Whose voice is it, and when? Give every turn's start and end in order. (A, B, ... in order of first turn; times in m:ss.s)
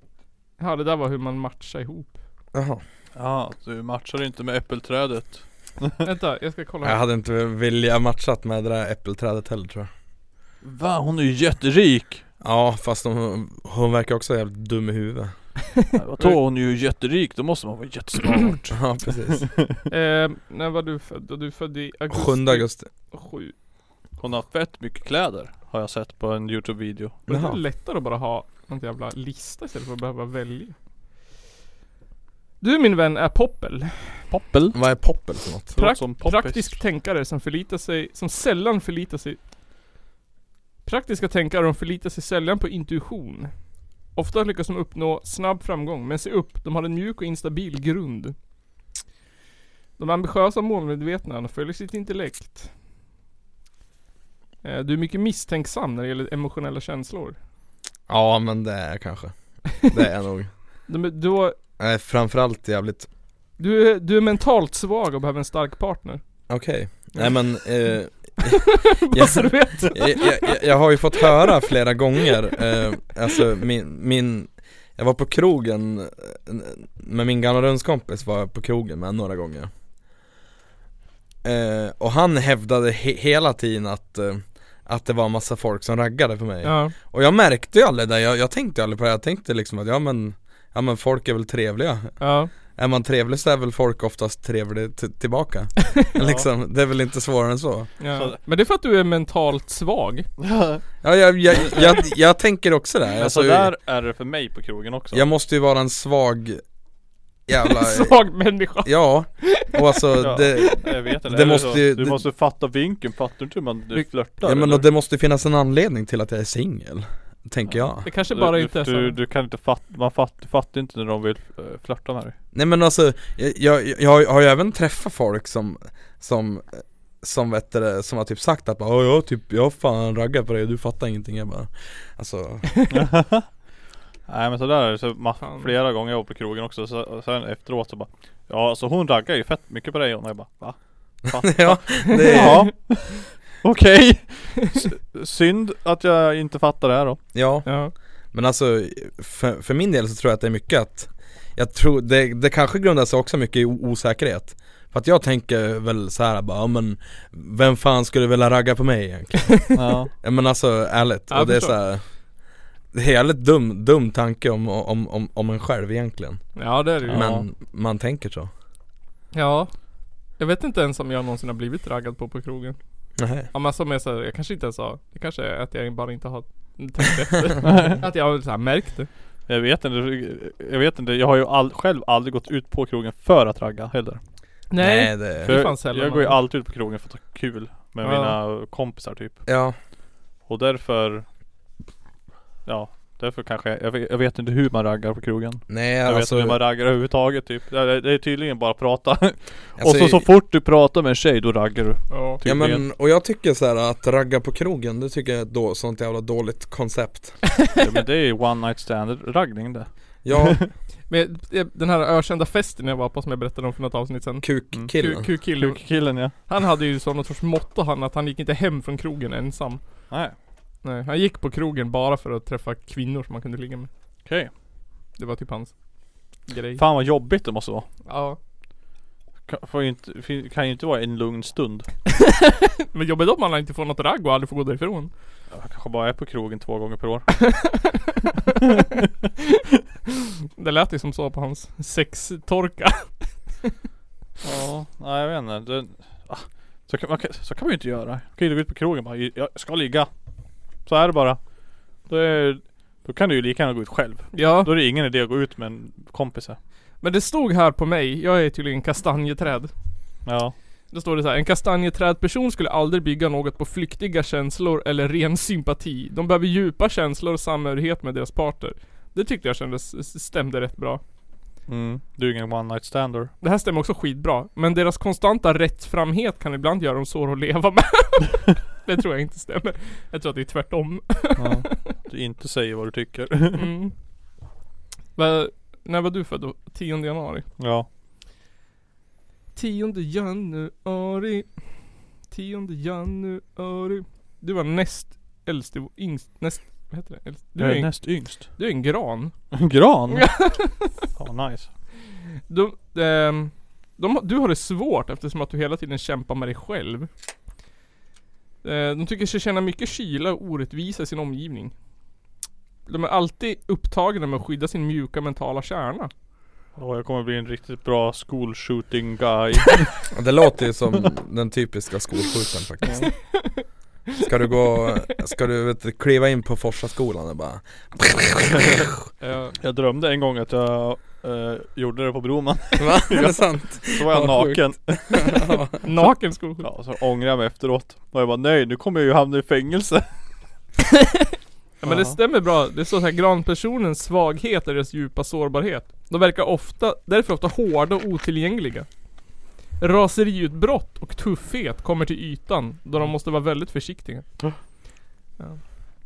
0:00.6-0:02.2 A
0:02.5-0:02.8 B
0:03.2-0:06.0 C
0:06.0-0:07.0 A
0:06.8-0:09.9 B
0:10.6-0:12.2 C
0:12.4-0:15.5 B
0:15.9-0:19.5 C
0:18.7-0:19.5 B
0:19.9-0:23.5 A
0:22.1-0:22.9 B
0:24.2-0:27.2 C
0:27.3-0:27.6 B
0:27.3-0:30.7 A
0:32.6-0:34.2 A
0:34.3-0:35.0 C
0:34.7-0:35.7 B
0:35.7-0:36.8 C
0:35.8-0:39.4 A
0:40.8-0:48.4 A
0:50.0-0:52.7 A
0:54.6-0:57.4 A
0:58.1-1:00.5 B
1:00.9-1:01.6 A
1:01.8-1:03.1 B
1:03.6-1:06.2 A
1:06.5-1:19.7 B
1:08.8-1:10.5 A
1:21.4-1:37.9 B
1:26.6-1:26.9 A
1:32.2-1:32.5 A
1:36.2-1:36.5 C
1:38.0-1:40.3 A
1:38.1-1:38.4 C
1:40.4-1:40.8 C
1:41.0-1:43.7 B
1:41.5-1:42.0 C
1:43.2-1:45.3 C
1:45.1-1:46.6 B
1:47.5-1:52.2 B
1:47.6-1:49.8 A
1:50.2-1:54.9 C
1:54.4-1:58.1 B
1:58.0-1:59.2 A
1:58.0-2:02.4 C
2:02.5-2:12.8 B
2:12.9-2:13.5 C
2:14.3-2:27.2 C
2:15.4-2:15.7 A
2:21.4-2:22.8 B
2:22.1-2:22.7 A
2:27.3-2:42.0 B
2:27.6-2:27.9 A
2:39.7-2:40.1 C
2:41.3-2:41.7 A
2:42.9-2:48.5 B
2:46.6-2:47.2 A
2:47.0-2:47.4 C
2:49.3-2:49.7 A
2:50.4-2:52.8 A
2:53.2-2:53.5 B
2:53.5-2:59.1 A
2:57.6-2:58.0 C
2:59.5-3:04.2 C
3:04.7-3:06.4 A
3:04.8-3:05.6 B
3:05.4-3:09.4 C
3:08.0-3:08.4 A
3:09.5-3:09.8 B
3:10.5-3:11.2 C
3:12.6-3:22.8 C
3:15.7-3:16.6 B
3:19.8-3:20.3 B
3:22.1-3:22.4 A
3:22.4-3:27.5 B
3:27.8-3:30.7 C
3:30.2-3:30.6 B
3:31.1-3:40.1 A
3:34.4-3:35.2 B
3:34.7-3:36.3 C
3:40.1-3:40.4 C
3:40.8-3:43.9 A
3:44.2-3:44.5 C
3:45.2-3:45.7 A
3:46.5-3:46.8 A
3:46.8-3:47.9 C
3:48.0-3:48.4 A
3:49.5-3:52.0 C
3:52.5-3:55.1 A
3:55.5-3:58.0 C
3:57.4-3:58.1 A
4:00.6-4:03.7 A
4:04.4-4:10.1 C
4:10.8-4:11.4 C
4:12.0-4:16.6 C
4:14.3-4:14.7 A
4:17.0-4:19.7 A
4:20.2-4:20.5 C
4:20.9-4:31.0 A
4:31.7-4:33.3 C
4:33.4-4:41.8 A
4:41.4-4:43.7 C
4:43.5-4:43.9 A
4:45.2-4:47.4 A
4:47.6-4:47.9 C
4:49.6-4:59.3 A
4:57.6-4:58.6 C
4:59.5-5:01.7 C
5:00.1-5:01.0 A
5:02.5-5:07.1 A
5:08.6-5:11.7 A
5:12.9-5:16.1 A
5:16.8-5:20.0 C
5:20.1-5:23.3 B
5:23.3-5:23.6 A
5:24.2-5:28.8 B
5:29.2-5:29.5 A
5:29.6-5:35.4 C
5:32.8-5:35.7 B
5:35.8-5:36.6 A
5:36.0-5:40.1 C
5:41.8-5:48.9 A
5:41.8-5:42.2 C
5:49.8-5:54.3 A
5:55.4-5:55.7 A